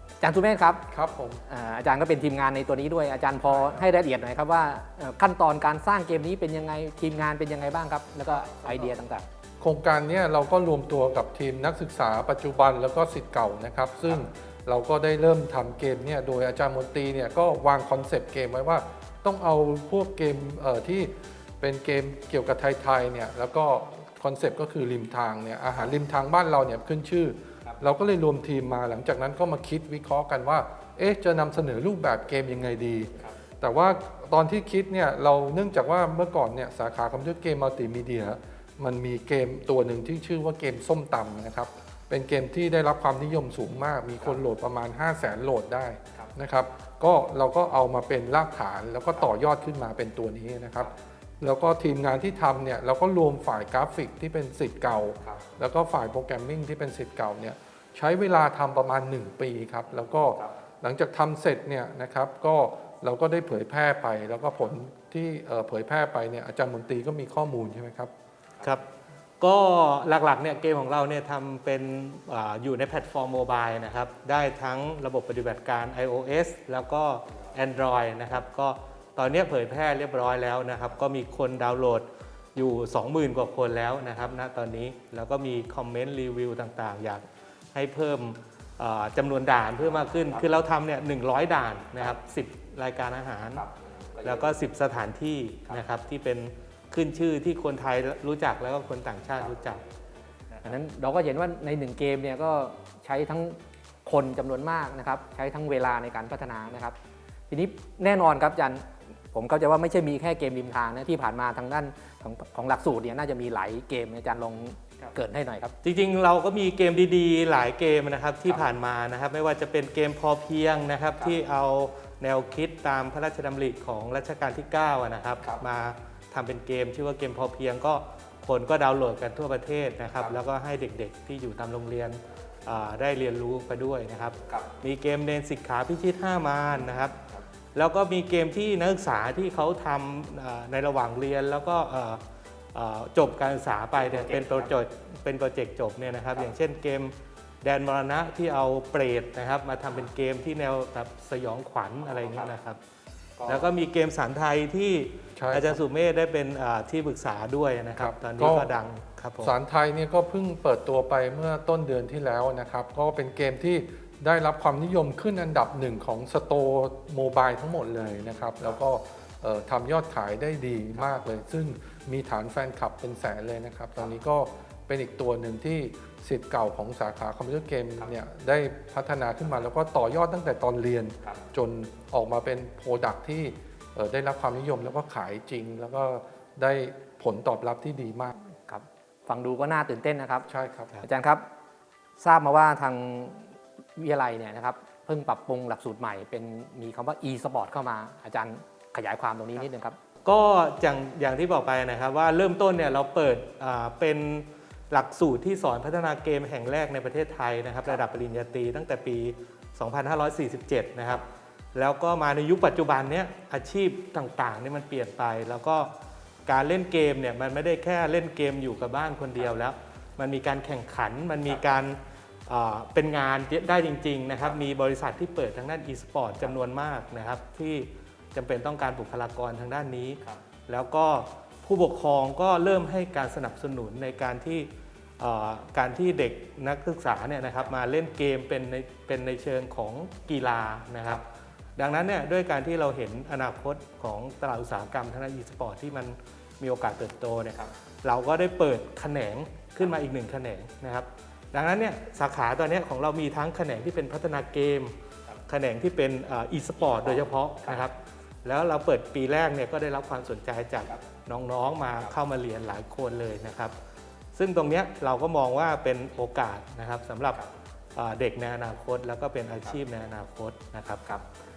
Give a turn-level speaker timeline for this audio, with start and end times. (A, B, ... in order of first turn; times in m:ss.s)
0:00.2-0:00.9 A
0:00.9-0:01.4 B
0:01.5-0:09.3 A
0:09.6-1:08.1 B
1:09.4-1:33.7 C
1:34.2-1:39.8 C
1:40.6-1:47.0 A
1:47.5-1:55.7 A
1:55.8-2:17.2 C
2:17.8-2:22.2 C
2:22.7-2:32.8 C
2:33.4-2:39.5 C
2:35.4-2:35.8 B
2:38.0-2:38.7 B
2:39.4-3:08.3 B
3:08.5-3:10.5 A
3:10.5-3:11.0 B
3:11.0-3:11.5 A
3:12.2-3:20.0 A
3:20.2-3:36.0 C
3:36.5-4:01.2 C
4:01.8-4:15.0 C
4:15.5-4:23.8 C
4:24.3-4:31.1 C